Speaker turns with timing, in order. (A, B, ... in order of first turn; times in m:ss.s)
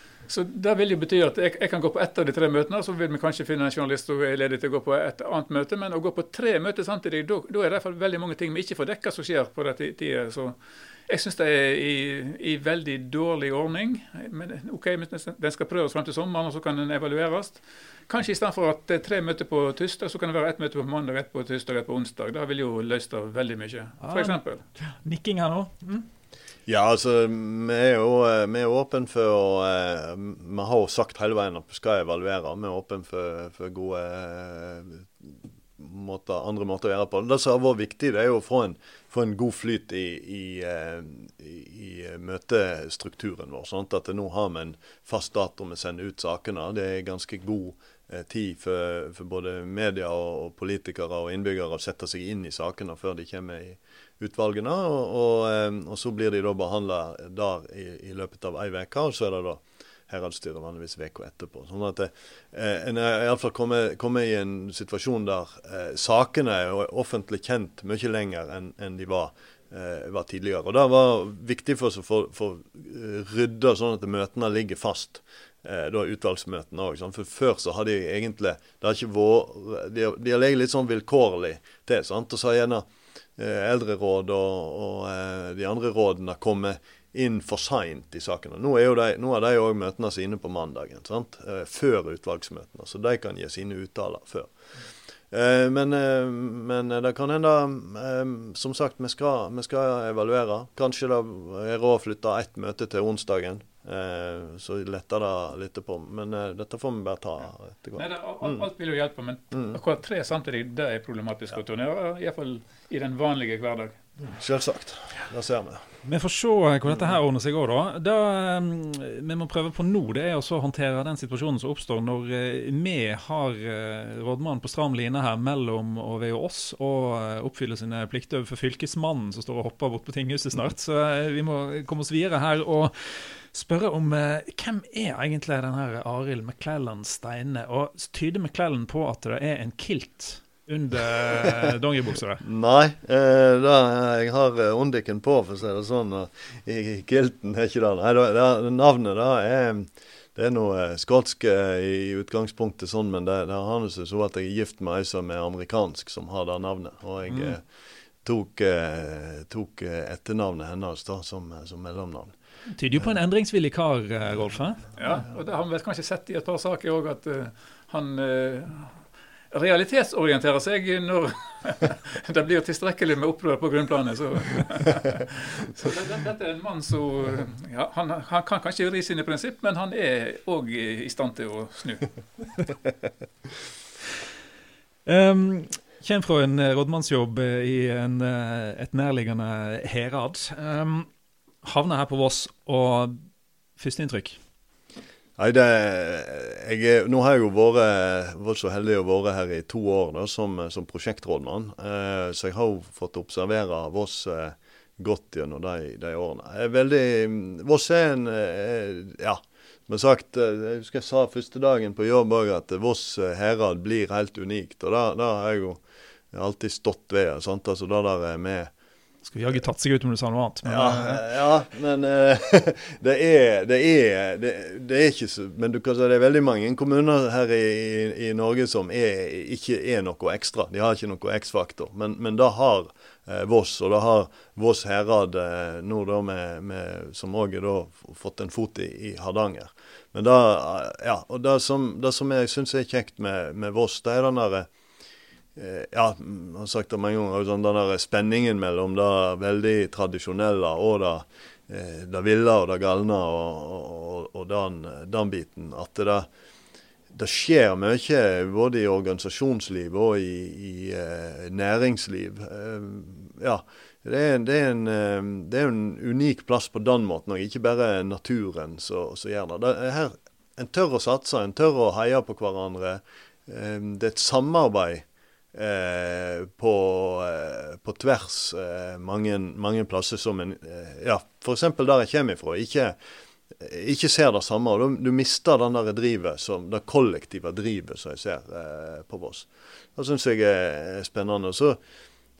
0:00.3-0:24.6 A
0:24.0-0:26.1 B
0:26.7-1:34.5 C
1:35.3-1:48.7 C
1:48.0-1:54.0 A
1:49.5-1:49.8 C
1:54.3-1:55.8 C
1:56.0-2:22.4 B
2:22.4-2:37.6 C
2:37.3-2:37.6 B
2:38.2-2:42.3 C
2:42.7-2:44.9 B
2:45.0-2:49.0 A
2:49.5-3:02.1 A
3:05.1-3:11.1 B
3:11.6-3:13.2 B
3:13.8-3:14.4 B
3:15.4-3:35.8 C
3:36.3-3:38.7 C
3:39.3-3:41.2 B
3:40.6-4:04.7 C
4:05.6-4:16.3 C
4:17.1-4:43.0 C
4:43.5-4:51.8 C